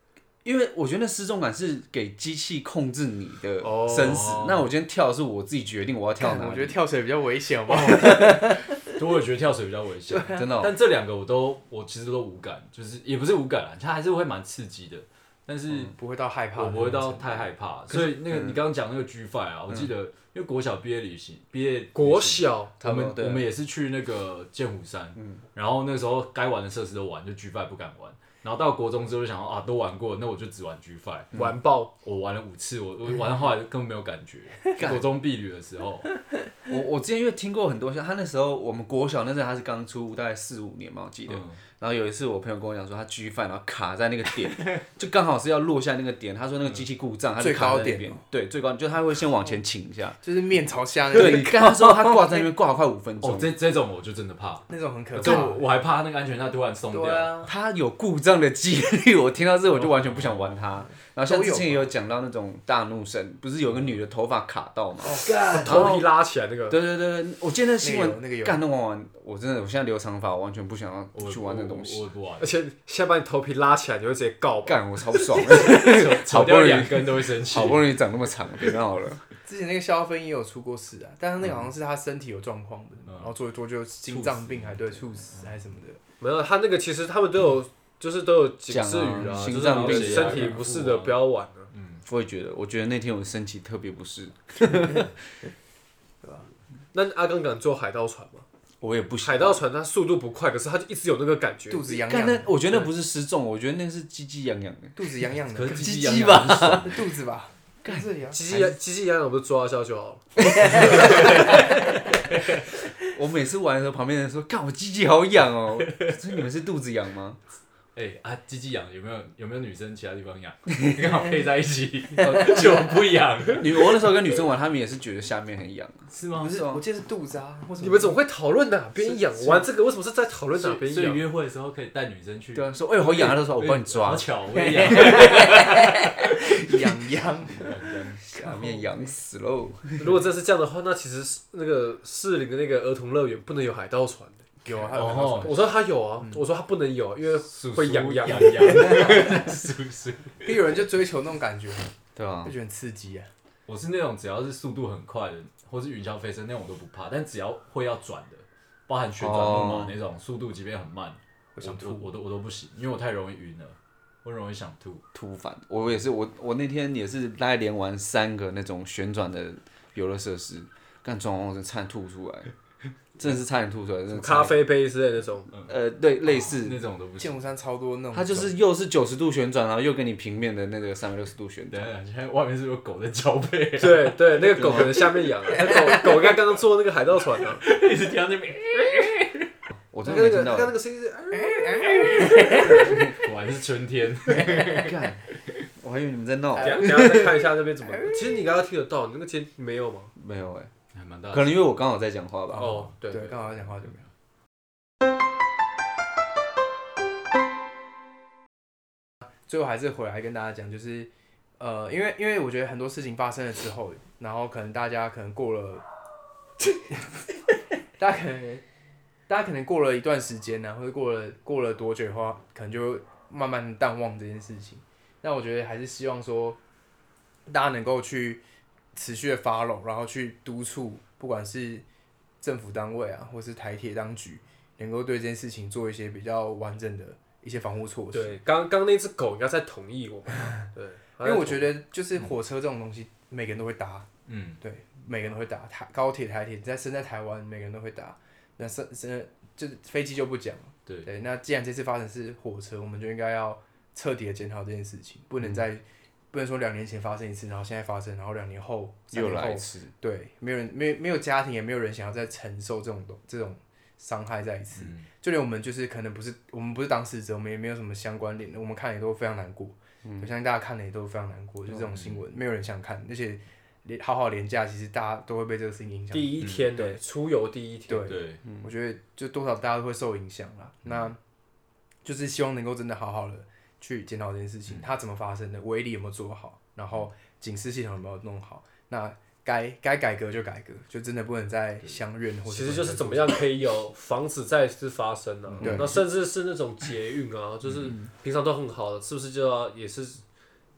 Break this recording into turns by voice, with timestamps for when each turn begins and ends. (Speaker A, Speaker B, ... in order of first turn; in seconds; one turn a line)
Speaker A: 0.4-6.8
Speaker B: 3.6-4.4
Speaker C: 4.0-4.6
Speaker D: 6.2-8.8
Speaker C: 7.7-15.9
Speaker D: 10.1-10.4
Speaker A: 10.3-10.7
Speaker D: 15.8-17.5
Speaker C: 16.5-31.4
Speaker A: 18.3-18.6
Speaker B: 21.9-22.7
Speaker A: 22.8-23.5
Speaker B: 31.3-31.9
Speaker C: 31.9-36.1
Speaker A: 34.8-35.1
Speaker A: 36.7-50.2
Speaker C: 41.3-41.6
Speaker D: 47.4-48.2
Speaker D: 50.2-52.5
Speaker A: 51.1-53.5
Speaker C: 53.2-57.5
Speaker D: 54.7-55.7
Speaker D: 56.9-57.5
Speaker A: 57.5-66.1
Speaker C: 59.7-60.7
Speaker D: 61.2-61.9
Speaker D: 65.1-65.7
Speaker B: 65.4-66.8
Speaker A: 66.7-72.0
Speaker D: 67.8-68.6
Speaker C: 71.1-72.5
Speaker B: 72.4-75.2
Speaker A: 74.6-79.2
Speaker C: 75.5-78.0
Speaker D: 79.4-86.0
Speaker A: 81.4-81.7
Speaker C: 83.1-83.3
Speaker C: 84.0-85.5
Speaker B: 86.2-91.7
Speaker A: 88.7-90.6
Speaker C: 89.2-91.2
Speaker C: 91.7-92.0
Speaker A: 92.0-95.1
Speaker D: 96.2-96.5
Speaker B: 96.9-98.4
Speaker A: 98.8-99.6
Speaker B: 99.2-101.9
Speaker D: 101.7-102.5
Speaker A: 101.9-105.0
Speaker D: 105.0-106.0
Speaker C: 105.5-107.0
Speaker A: 105.7-106.9
Speaker D: 106.8-108.5
Speaker A: 107.8-108.7
Speaker B: 108.3-111.5
Speaker A: 110.5-111.7
Speaker D: 110.6-111.6
Speaker C: 110.8-111.5
Speaker A: 113.0-117.4
Speaker C: 117.9-124.0
Speaker A: 122.2-122.8
Speaker A: 123.5-126.8
Speaker C: 126.1-126.6
Speaker D: 126.3-128.2
Speaker B: 127.8-131.2
Speaker D: 129.0-129.7
Speaker C: 130.6-137.0
Speaker A: 132.5-134.3
Speaker D: 134.5-135.8
Speaker A: 134.9-135.4
Speaker D: 136.5-139.2
Speaker C: 137.5-138.2
Speaker A: 138.2-140.2
Speaker B: 140.0-144.4
Speaker D: 144.6-145.7
Speaker C: 144.9-145.7
Speaker B: 145.3-149.3
Speaker C: 147.5-150.7
Speaker D: 148.8-149.4
Speaker D: 150.4-151.9
Speaker A: 152.2-152.5
Speaker D: 152.4-153.3
Speaker C: 153.7-165.0
Speaker A: 159.2-160.0
Speaker D: 161.6-162.1
Speaker A: 165.1-172.5
Speaker A: 173.2-174.5
Speaker B: 174.1-175.5
Speaker A: 175.7-176.8
Speaker C: 176.4-177.4
Speaker D: 177.2-178.5
Speaker A: 178.1-181.9
Speaker C: 181.7-184.9
Speaker B: 183.8-187.6
Speaker A: 184.6-185.0
Speaker C: 187.6-189.4
Speaker A: 189.9-190.7
Speaker B: 190.0-192.6
Speaker D: 191.3-193.2
Speaker C: 192.1-195.0
Speaker D: 194.4-194.8
Speaker A: 194.5-195.2
Speaker A: 195.8-197.4
Speaker D: 196.6-198.3
Speaker B: 196.6-200.1
Speaker A: 200.2-200.7
Speaker C: 200.9-201.7
Speaker A: 201.3-202.8
Speaker D: 202.5-204.0
Speaker B: 202.5-203.5
Speaker D: 209.5-215.8
Speaker D: 216.6-217.3
Speaker D: 218.0-218.6
Speaker D: 219.3-226.6
Speaker D: 227.5-228.4
Speaker D: 228.9-231.8
Speaker D: 232.4-238.4
Speaker B: 238.1-241.7
Speaker D: 241.2-244.1
Speaker C: 244.2-244.6
Speaker D: 244.6-277.0
Speaker A: 259.1-259.9
Speaker C: 264.8-265.1
Speaker A: 270.0-270.3
Speaker C: 271.9-272.2
Speaker B: 276.1-278.1
Speaker C: 276.4-276.7
Speaker D: 277.9-281.2
Speaker C: 278.0-278.4
Speaker A: 278.4-278.7
Speaker D: 282.0-293.4
Speaker B: 292.5-300.2
Speaker D: 295.6-295.9
Speaker A: 295.6-296.0
Speaker C: 297.6-298.0